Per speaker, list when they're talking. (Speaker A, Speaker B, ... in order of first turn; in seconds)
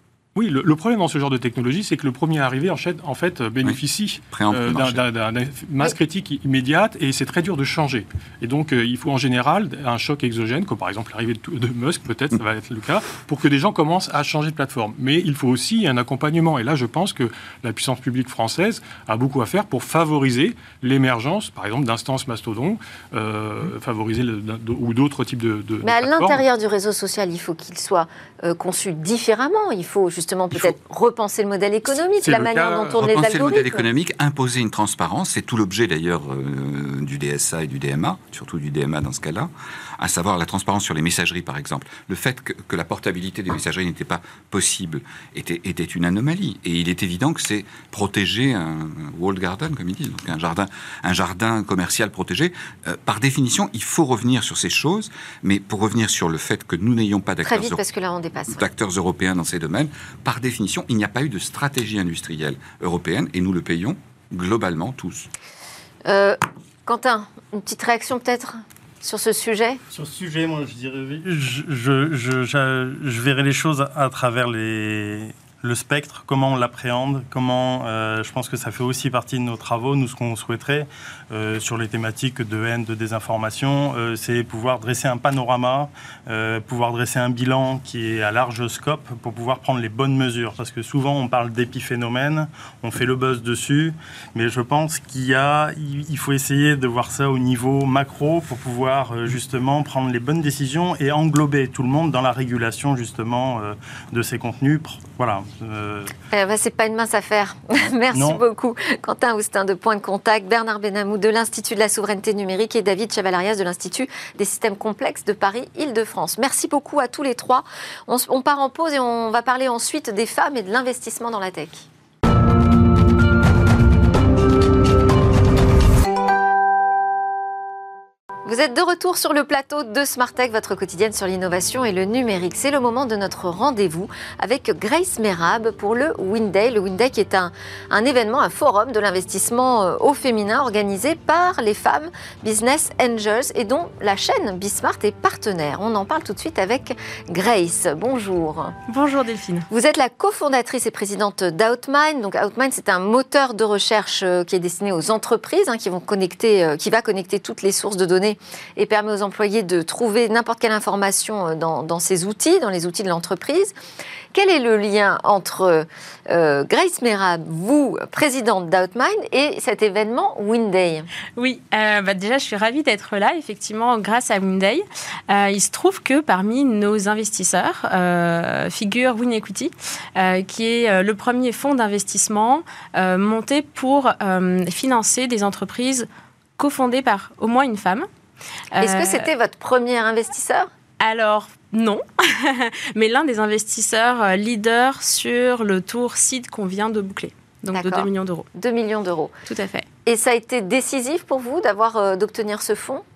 Speaker A: 0.3-26.4
Speaker B: 4.3-5.0, 32.2-57.8, 58.5-65.3
Speaker C: 25.8-33.8, 57.4-58.6, 66.0-69.8, 106.3-121.9, 128.4-148.8, 149.7-163.7, 164.3-171.1, 188.8-190.7, 197.7-199.3, 200.0-203.0
Speaker D: 69.9-106.2, 108.1-108.4
Speaker E: 148.9-149.7, 171.4-186.1, 186.6-188.1, 188.7-189.3, 191.0-198.5, 199.5-199.8